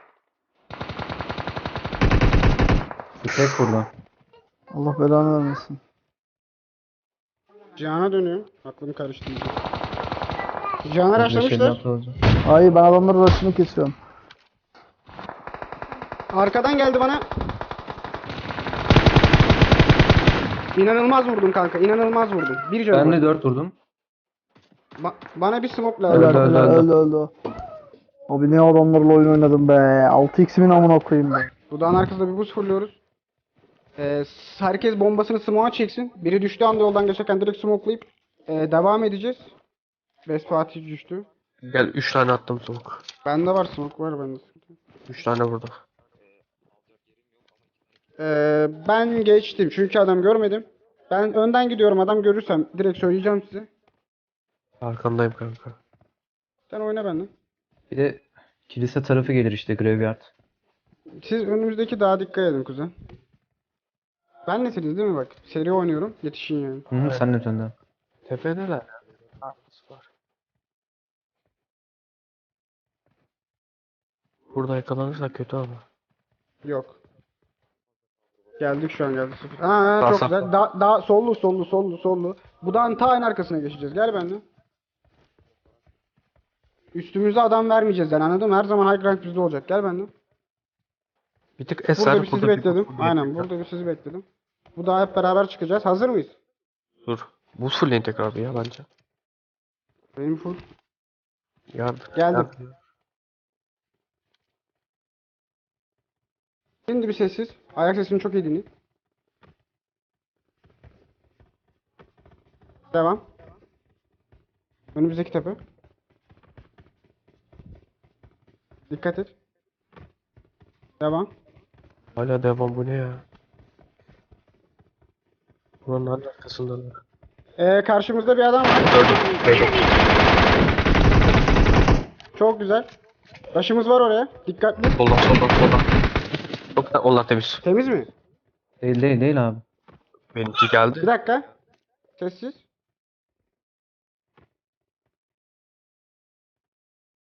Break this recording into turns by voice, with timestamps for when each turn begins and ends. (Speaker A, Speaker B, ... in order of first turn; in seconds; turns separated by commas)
Speaker A: 3.2-3.9, Speaker B: 4.7-5.8, Speaker C: 7.8-9.5, Speaker C: 10.8-11.8, Speaker A: 11.2-12.2, Speaker B: 12.4-13.9, Speaker C: 16.3-17.2, Speaker C: 20.7-23.2, Speaker A: 22.9-23.8, Speaker C: 25.0-26.8, Speaker B: 26.1-27.3, Speaker A: 26.1-26.9, Speaker B: 28.3-31.5, Speaker C: 31.7-33.0, Speaker C: 34.0-39.5, Speaker C: 40.2-41.3, Speaker D: 41.7-43.0, Speaker C: 43.2-44.7, Speaker D: 45.1-45.7, Speaker C: 48.2-53.7, Speaker D: 54.8-55.8, Speaker C: 56.7-57.3, Speaker A: 57.9-60.3, Speaker C: 61.2-62.9, Speaker C: 64.5-66.8, Speaker A: 66.9-67.7, Speaker D: 68.2-68.9, Speaker D: 69.4-70.0, Speaker D: 74.5-75.8, Speaker C: 76.6-77.0, Speaker C: 78.6-84.4, Speaker D: 80.0-80.5, Speaker C: 86.9-90.1, Speaker D: 91.6-93.5, Speaker C: 91.9-94.2, Speaker C: 94.8-96.3, Speaker D: 97.0-98.8, Speaker C: 100.2-100.6, Speaker D: 101.7-102.7, Speaker C: 102.1-102.5, Speaker C: 106.9-108.7, Speaker C: 112.9-113.2, Speaker C: 114.9-115.6, Speaker C: 118.9-119.3, Speaker C: 121.0-121.3, Speaker D: 122.2-123.2, Speaker D: 125.8-127.0, Speaker C: 127.6-128.9, Speaker D: 128.8-129.9, Speaker C: 132.3-132.9, Speaker C: 133.5-134.9, Speaker D: 134.9-135.8, Speaker D: 136.7-137.6, Speaker C: 137.6-138.1, Speaker A: 138.8-139.6, Speaker D: 140.3-141.1, Speaker C: 141.0-141.4, Speaker C: 142.2-142.6